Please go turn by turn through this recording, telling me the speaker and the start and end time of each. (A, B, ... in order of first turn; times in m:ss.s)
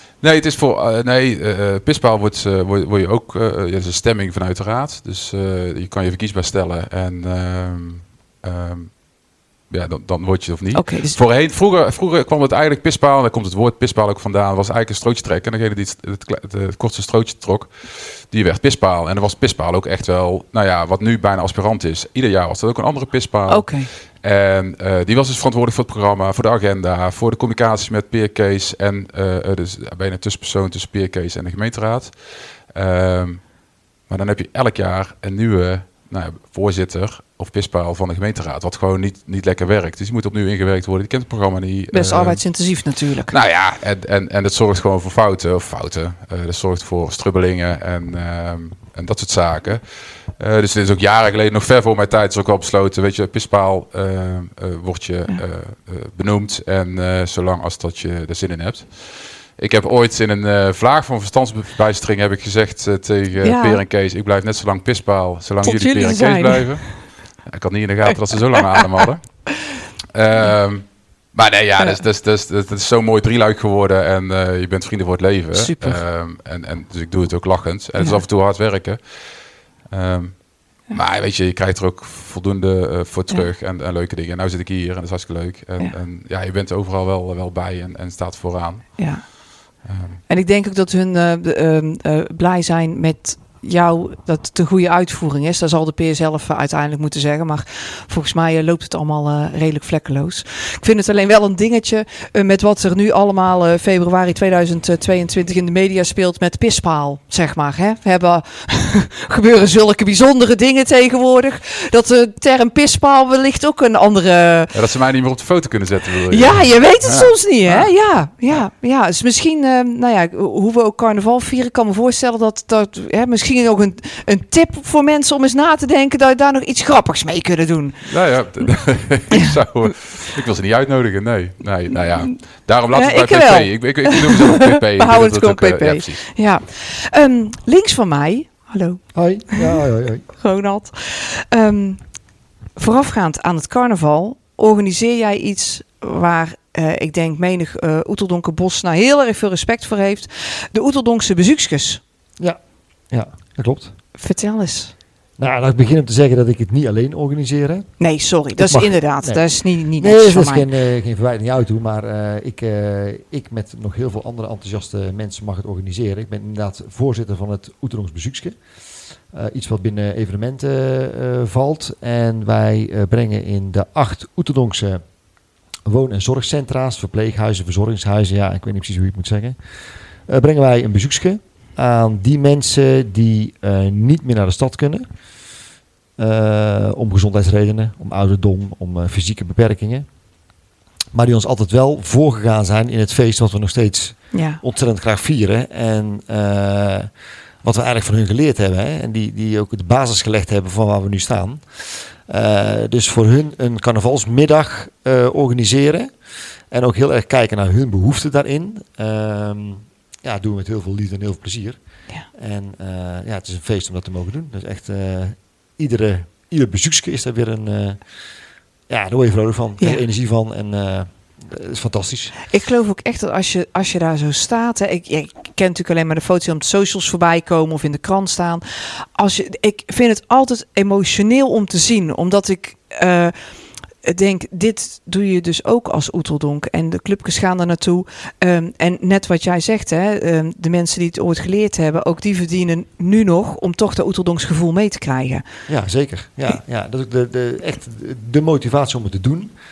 0:00.2-1:30.2 A
0:10.7-0:11.2 B
0:23.5-0:23.9 B
0:41.9-0:43.3 B
1:03.4-1:03.8 B
1:05.6-1:07.0 B
1:15.5-1:16.0 B
1:18.0-1:18.2 B
1:29.0-1:54.7 B
1:54.7-1:57.9 A
1:56.3-2:08.4 B
2:08.0-2:16.3 A
2:12.2-2:19.8 B
2:19.1-2:20.2 C
2:20.3-2:22.0 B
2:22.8-2:32.0 B
2:32.4-2:33.9 C
2:34.2-2:34.9 B
2:35.4-2:48.6 C
2:38.0-2:40.7 B
2:49.3-2:55.1 C
2:55.9-2:59.6 C
3:00.3-3:05.0 C
3:06.2-3:10.1 C
3:11.1-3:17.1 C
3:14.3-3:14.6 B
3:17.6-3:26.1 C
3:26.7-3:38.0 C
3:38.9-3:42.3 C
3:42.5-4:05.4 B
4:05.7-4:09.5 C